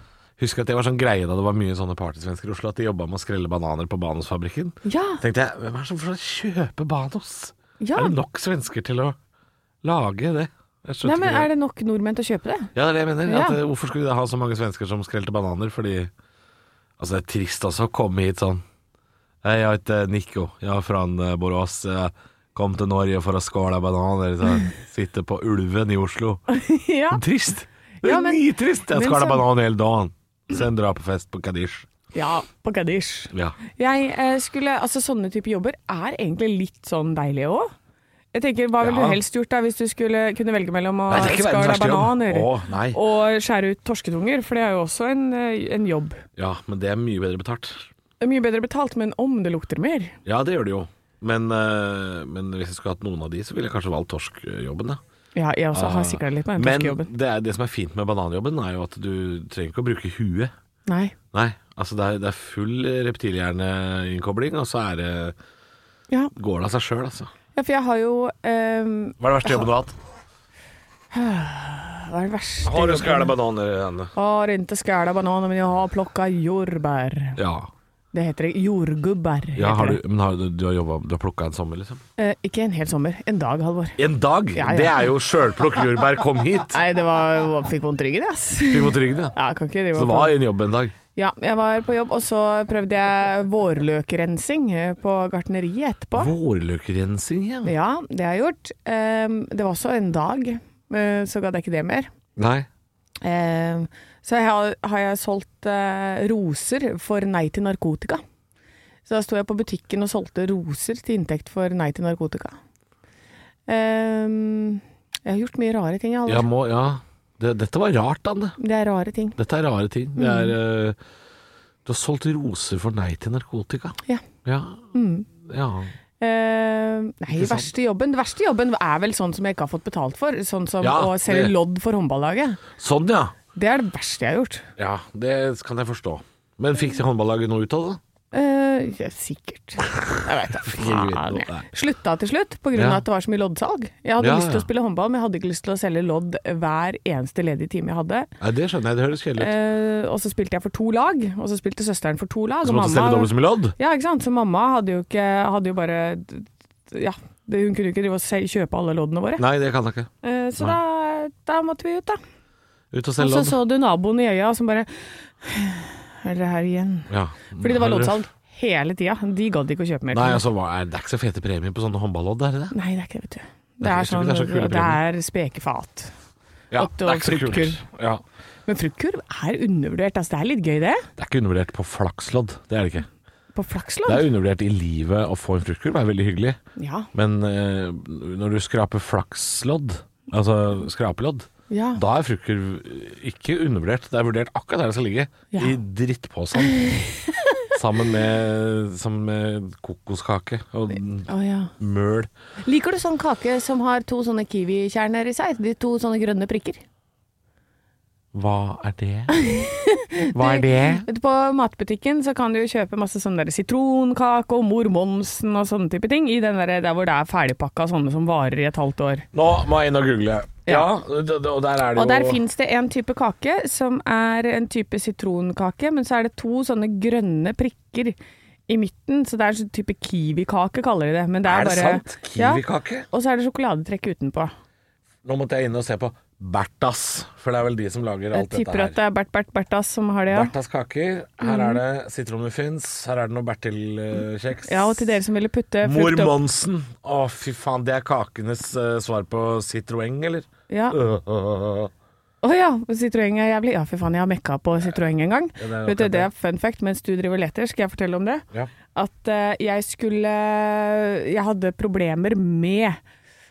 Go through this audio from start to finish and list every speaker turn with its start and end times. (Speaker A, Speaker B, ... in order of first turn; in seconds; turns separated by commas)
Speaker A: 0.4-9.2, Speaker B: 4.8-5.2, Speaker B: 7.8-8.2, Speaker A: 9.8-11.5, Speaker B: 11.0-12.7, Speaker A: 12.8-16.1, Speaker B: 13.2-13.6, Speaker A: 17.0-18.6, Speaker A: 19.4-26.4, Speaker B: 26.5-27.2, Speaker A: 27.1-31.9, Speaker B: 28.0-29.4, Speaker B: 32.1-37.7, Speaker B: 38.3-46.2, Speaker A: 38.8-39.2, Speaker A: 41.1-43.0, Speaker A: 46.4-47.9, Speaker B: 48.2-50.2, Speaker A: 50.3-55.0, Speaker B: 55.4-57.1, Speaker A: 55.7-60.5, Speaker B: 60.9-61.1, Speaker A: 61.3-65.4, Speaker A: 66.3-67.3, Speaker B: 67.5-69.7, Speaker A: 69.2-70.0, Speaker B: 71.1-73.3, Speaker A: 72.6-74.1, Speaker B: 74.2-77.4, Speaker A: 77.4-77.7, Speaker B: 78.1-80.0, Speaker A: 79.5-82.0, Speaker B: 82.2-84.0, Speaker A: 84.0-86.8, Speaker B: 84.5-85.1, Speaker B: 86.7-90.3, Speaker A: 88.7-89.4, Speaker A: 89.9-90.9, Speaker B: 91.2-96.3, Speaker A: 96.2-97.7, Speaker B: 97.6-102.1, Speaker A: 102.4-102.7, Speaker B: 103.2-108.2, Speaker B: 109.1-112.6, Speaker B: 113.7-116.5, Speaker A: 116.3-118.6, Speaker B: 118.6-119.4, Speaker A: 119.4-121.0, Speaker B: 120.2-120.5, Speaker A: 121.8-124.9, Speaker B: 124.9-125.3, Speaker A: 125.4-125.9, Speaker B: 126.2-132.6, Speaker A: 127.3-127.7, Speaker A: 130.8-131.5, Speaker A: 132.7-133.3, Speaker B: 133.6-134.7, Speaker A: 134.8-138.0, Speaker B: 138.3-148.3, Speaker A: 140.6-141.7, Speaker A: 142.8-143.0, Speaker A: 144.2-144.7, Speaker A: 148.4-149.5, Speaker B: 149.4-159.5, Speaker A: 152.6-153.8, Speaker A: 159.4-160.8, Speaker B: 160.2-162.2, Speaker A: 162.9-163.6, Speaker B: 163.2-170.4, Speaker A: 167.1-168.2, Speaker A: 170.1-172.8, Speaker B: 172.7-176.1, Speaker A: 173.8-175.0, Speaker A: 176.7-178.2, Speaker B: 176.8-177.8, Speaker B: 178.7-181.1, Speaker A: 181.2-183.1, Speaker B: 183.6-184.3, Speaker A: 184.1-186.6, Speaker B: 186.8-187.1, Speaker A: 187.1-196.9, Speaker B: 191.7-192.0, Speaker B: 196.6-197.7, Speaker A: 197.7-202.3, Speaker B: 201.3-201.7, Speaker B: 202.7-206.8, Speaker A: 208.3-209.4, Speaker B: 209.3-219.3, Speaker A: 210.3-211.1, Speaker A: 219.3-222.4, Speaker B: 221.9-228.2, Speaker B: 228.7-234.5, Speaker A: 231.4-233.1, Speaker A: 235.2-239.0, Speaker B: 238.3-240.5, Speaker A: 240.3-245.1, Speaker B: 241.4-241.8, Speaker B: 244.7-246.4, Speaker A: 245.8-251.9, Speaker B: 250.7-251.0, Speaker B: 252.4-263.0, Speaker A: 255.6-256.3